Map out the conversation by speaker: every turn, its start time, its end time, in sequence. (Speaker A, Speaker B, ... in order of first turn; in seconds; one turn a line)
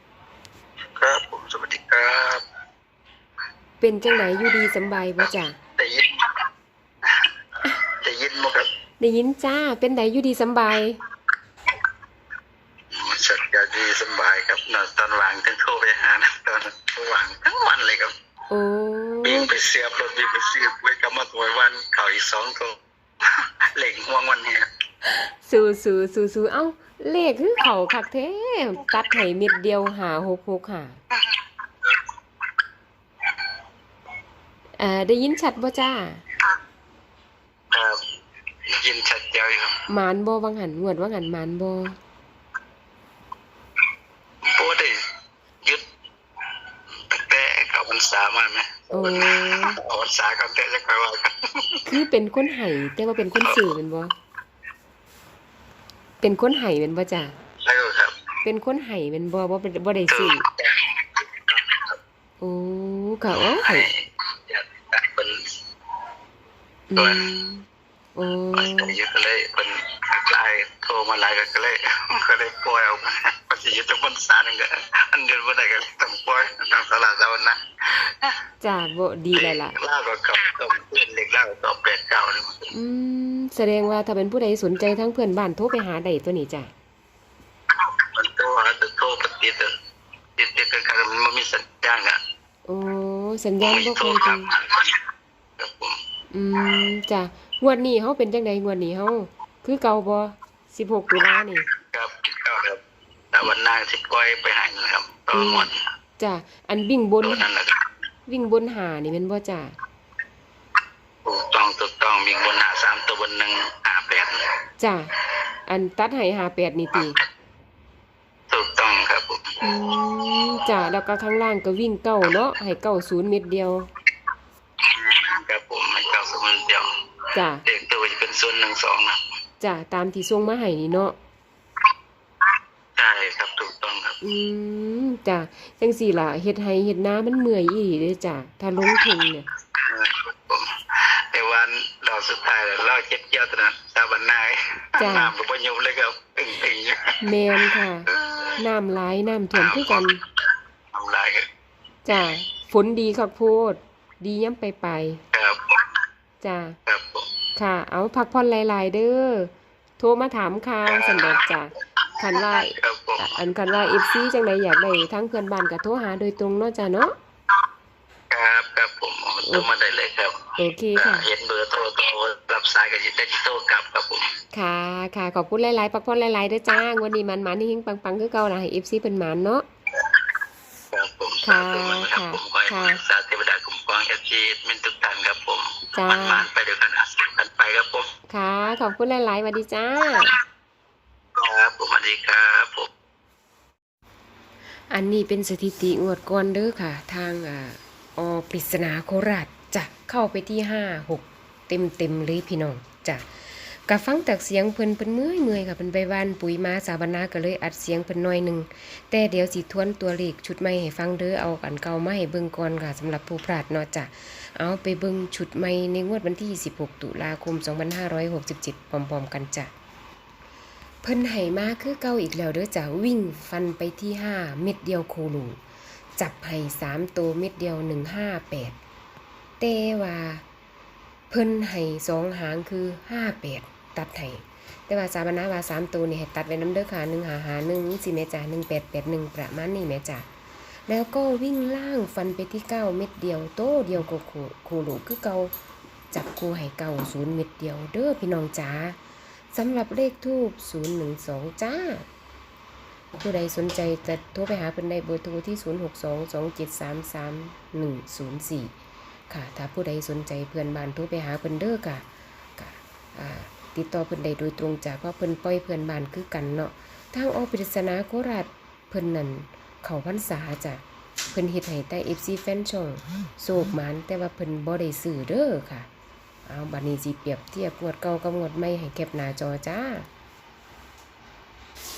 Speaker A: 1.0-2.4
Speaker B: 3.8-5.5
Speaker A: 5.2-6.4
Speaker A: 7.8-8.7
Speaker B: 9.0-11.0
Speaker A: 12.9-18.1
Speaker B: 18.5-19.5
Speaker A: 19.2-22.8
Speaker A: 23.7-24.7
Speaker B: 25.1-31.0
Speaker B: 34.8-36.2
Speaker A: 37.7-38.0
Speaker A: 38.7-39.8
Speaker B: 39.9-42.0
Speaker A: 44.4-45.0
Speaker A: 47.1-51.9
Speaker B: 48.9-49.8
Speaker B: 51.9-54.1
Speaker B: 56.2-57.3
Speaker A: 57.6-58.1
Speaker B: 58.4-60.4
Speaker A: 60.1-62.0
Speaker B: 62.4-63.9
Speaker A: 63.4-65.4
Speaker B: 66.9-67.6
Speaker A: 67.0-67.2
Speaker B: 68.2-69.0
Speaker A: 68.5-78.3
Speaker B: 78.6-79.8
Speaker A: 79.3-82.7
Speaker B: 82.7-86.7
Speaker A: 87.8-89.7
Speaker A: 90.4-92.2
Speaker B: 92.7-94.5
Speaker A: 93.6-95.0
Speaker A: 95.6-96.0
Speaker B: 96.3-101.7
Speaker A: 101.8-102.8
Speaker A: 103.3-105.8
Speaker B: 105.3-107.4
Speaker A: 107.2-107.8
Speaker B: 108.3-109.8
Speaker A: 111.2-114.4
Speaker B: 114.8-115.1
Speaker B: 115.7-117.2
Speaker A: 118.5-119.5
Speaker B: 119.6-123.9
Speaker A: 124.8-126.9
Speaker B: 127.3-127.6
Speaker A: 127.6-129.2
Speaker B: 129.6-131.2
Speaker A: 133.0-134.2
Speaker B: 134.2-139.4
Speaker A: 139.8-147.5
Speaker B: 144.9-145.3
Speaker B: 147.2-150.2
Speaker A: 148.1-148.6
Speaker A: 149.5-150.1
Speaker A: 150.9-151.4
Speaker B: 152.1-155.2
Speaker A: 155.3-155.8
Speaker B: 156.4-156.8
Speaker A: 156.9-157.3
Speaker B: 157.6-167.1
Speaker A: 160.8-161.4
Speaker A: 162.3-163.4
Speaker A: 168.3-174.3
Speaker B: 170.6-171.3
Speaker B: 174.5-179.7
Speaker A: 180.9-188.1
Speaker B: 181.4-183.0
Speaker B: 185.9-186.5
Speaker B: 188.3-190.3
Speaker A: 191.4-192.9
Speaker B: 194.9-219.7
Speaker B: 221.0-225.6
Speaker B: 226.2-228.7
Speaker B: 229.6-230.4
Speaker B: 231.3-240.2
Speaker B: 240.9-245.5
Speaker B: 246.1-249.0
Speaker B: 249.5-252.1
Speaker B: 253.1-258.7
Speaker B: 259.3-262.1
Speaker B: 262.6-275.9
Speaker B: 276.4-280.1